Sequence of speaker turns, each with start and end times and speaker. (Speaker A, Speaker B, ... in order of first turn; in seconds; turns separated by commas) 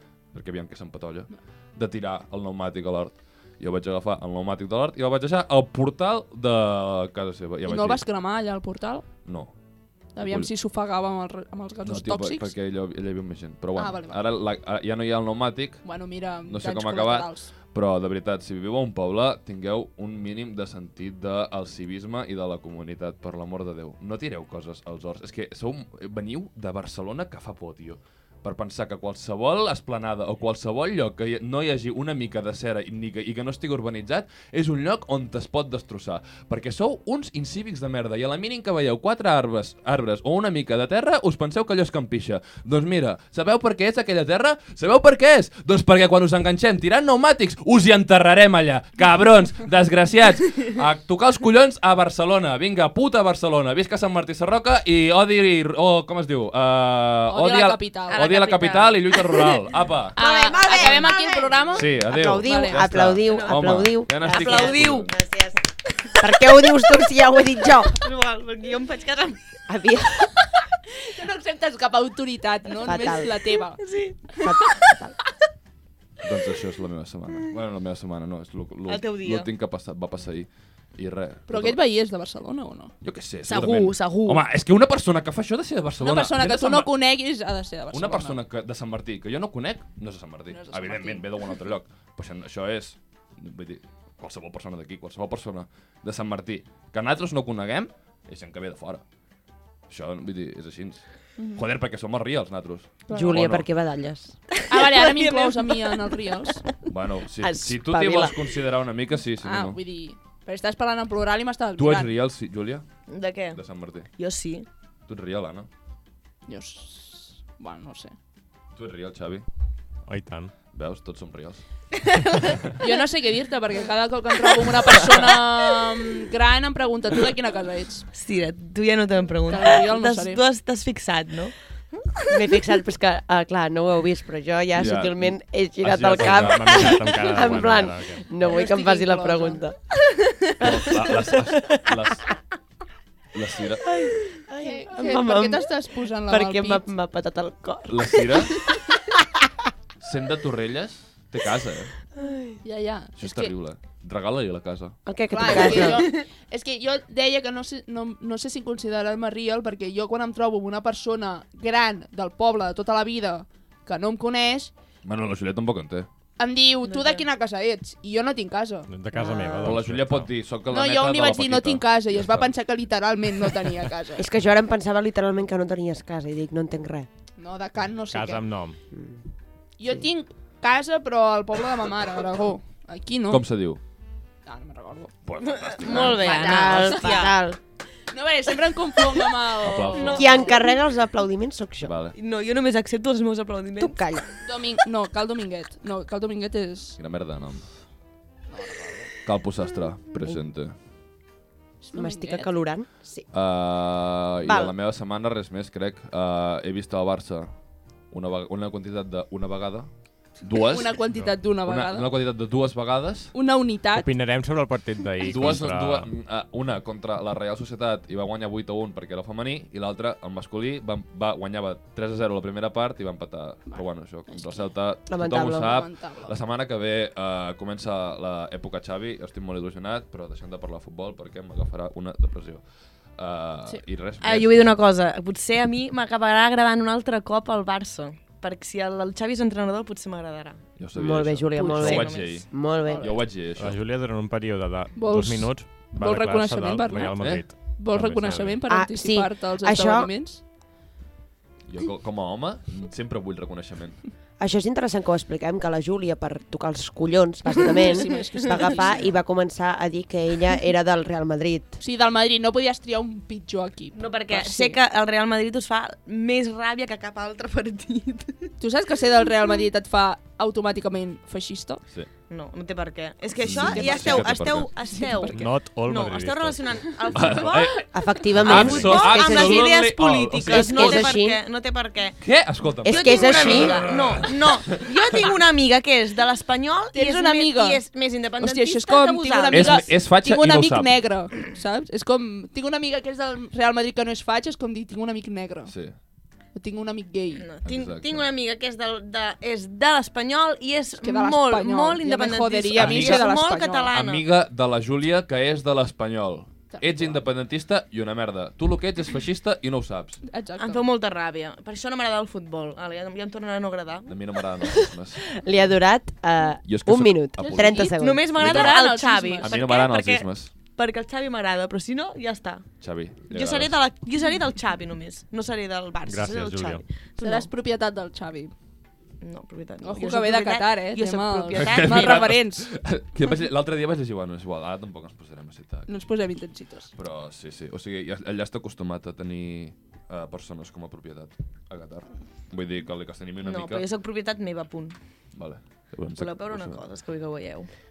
Speaker A: 0.3-8.0, Speaker B: 7.7-9.1, Speaker A: 9.2-9.5, Speaker B: 10.1-12.5, Speaker A: 10.2-10.5, Speaker A: 11.8-15.8, Speaker B: 13.8-14.2, Speaker B: 15.8-17.5, Speaker A: 16.4-60.2, Speaker B: 57.3-58.3, Speaker C: 58.1-59.6, Speaker B: 60.1-62.8, Speaker D: 60.1-65.6, Speaker C: 60.5-61.1, Speaker A: 61.7-65.1, Speaker C: 63.3-65.5, Speaker C: 66.1-66.4, Speaker D: 66.2-68.0, Speaker C: 67.9-69.6, Speaker D: 69.7-70.4, Speaker B: 71.0-73.8, Speaker D: 72.8-73.4, Speaker C: 73.8-74.9, Speaker D: 74.4-75.2, Speaker A: 76.2-81.8, Speaker C: 78.9-79.5, Speaker B: 81.5-82.9, Speaker A: 83.0-86.9, Speaker C: 83.5-84.4, Speaker B: 86.0-88.4, Speaker A: 87.9-99.0, Speaker B: 90.5-91.3, Speaker A: 99.9-103.7, Speaker B: 103.1-103.4, Speaker D: 103.1-105.1, Speaker B: 104.7-106.7, Speaker C: 105.1-105.7, Speaker A: 106.9-109.8, Speaker D: 107.4-108.5, Speaker B: 109.4-112.1, Speaker A: 111.8-112.8, Speaker C: 113.1-113.6, Speaker A: 113.5-114.1, Speaker C: 114.2-114.7, Speaker A: 115.1-115.7, Speaker B: 116.5-118.1, Speaker A: 118.8-119.5, Speaker E: 120.1-120.5, Speaker A: 120.7-121.6, Speaker B: 122.8-128.1, Speaker C: 128.1-132.6, Speaker B: 129.5-130.4, Speaker D: 132.3-142.0, Speaker A: 134.8-135.4, Speaker E: 135.8-138.2, Speaker A: 136.0-136.9, Speaker B: 138.4-139.6, Speaker A: 140.6-142.3, Speaker A: 143.3-143.8, Speaker D: 143.8-149.4, Speaker B: 144.6-146.8, Speaker A: 147.9-148.6, Speaker A: 150.0-151.9, Speaker D: 152.1-152.6, Speaker B: 152.6-153.5, Speaker A: 153.2-155.9, Speaker D: 155.0-156.1, Speaker B: 155.3-164.7, Speaker A: 165.0-166.1, Speaker B: 166.4-168.9, Speaker C: 166.8-167.3, Speaker E: 168.9-170.3, Speaker D: 169.1-169.8, Speaker A: 169.6-172.5, Speaker B: 170.7-174.2, Speaker D: 174.1-177.1, Speaker B: 177.4-178.5, Speaker E: 178.1-178.8, Speaker D: 178.9-179.2, Speaker B: 179.8-183.4, Speaker A: 183.3-183.8, Speaker B: 184.4-185.1, Speaker A: 185.2-186.4, Speaker C: 185.4-187.3, Speaker D: 186.0-187.6, Speaker B: 186.5-187.3, Speaker B: 188.1-190.6, Speaker C: 189.1-190.7, Speaker A: 189.6-190.3, Speaker D: 190.1-191.9, Speaker A: 191.8-192.1, Speaker C: 192.1-194.0, Speaker D: 193.8-194.3, Speaker B: 194.4-197.0, Speaker A: 197.0-197.7, Speaker B: 198.5-199.1, Speaker A: 199.2-200.8, Speaker B: 201.8-202.5, Speaker D: 201.9-203.3, Speaker A: 203.3-207.5, Speaker D: 204.4-204.7, Speaker A: 208.1-211.0, Speaker B: 210.5-212.1, Speaker A: 211.6-213.3, Speaker B: 213.3-214.1, Speaker E: 213.9-216.1, Speaker A: 215.2-232.6, Speaker B: 223.7-224.6, Speaker D: 225.1-225.8, Speaker B: 225.5-226.3, Speaker A: 233.2-234.7, Speaker C: 234.2-240.7, Speaker A: 240.8-243.8, Speaker D: 240.9-243.2, Speaker C: 241.5-242.4, Speaker B: 241.6-241.9, Speaker B: 242.8-243.2, Speaker E: 243.6-248.6, Speaker B: 244.9-250.4, Speaker A: 247.2-247.4, Speaker D: 248.7-250.1, Speaker A: 251.7-254.0, Speaker D: 254.4-261.8, Speaker B: 257.6-259.1, Speaker B: 261.8-264.8, Speaker C: 263.9-268.5, Speaker B: 268.6-271.8, Speaker C: 272.3-282.2, Speaker A: 273.4-274.7, Speaker E: 273.6-277.5, Speaker B: 274.9-275.4, Speaker A: 277.1-281.1, Speaker D: 277.9-281.4, Speaker A: 282.2-284.9, Speaker C: 282.8-289.9, Speaker D: 282.8-283.9, Speaker B: 286.9-287.8, Speaker B: 288.4-295.7, Speaker A: 289.5-290.9, Speaker A: 295.6-295.9, Speaker B: 296.5-297.4, Speaker C: 297.4-304.2, Speaker A: 297.6-298.3, Speaker B: 301.0-303.9, Speaker A: 302.8-303.2, Speaker A: 303.9-310.2, Speaker B: 306.7-307.2, Speaker B: 310.3-310.8, Speaker C: 310.6-314.1, Speaker A: 314.1-315.2, Speaker D: 314.9-318.2, Speaker A: 316.7-318.8, Speaker C: 317.4-322.7, Speaker B: 318.4-319.6, Speaker A: 319.4-320.5, Speaker A: 322.8-323.8, Speaker C: 323.3-327.5, Speaker E: 326.1-326.8, Speaker B: 327.2-328.5, Speaker C: 329.2-332.3, Speaker B: 329.8-332.7, Speaker A: 331.5-335.9, Speaker B: 335.9-336.9, Speaker A: 336.9-343.8, Speaker C: 343.4-344.9, Speaker A: 345.3-346.8, Speaker C: 346.1-347.7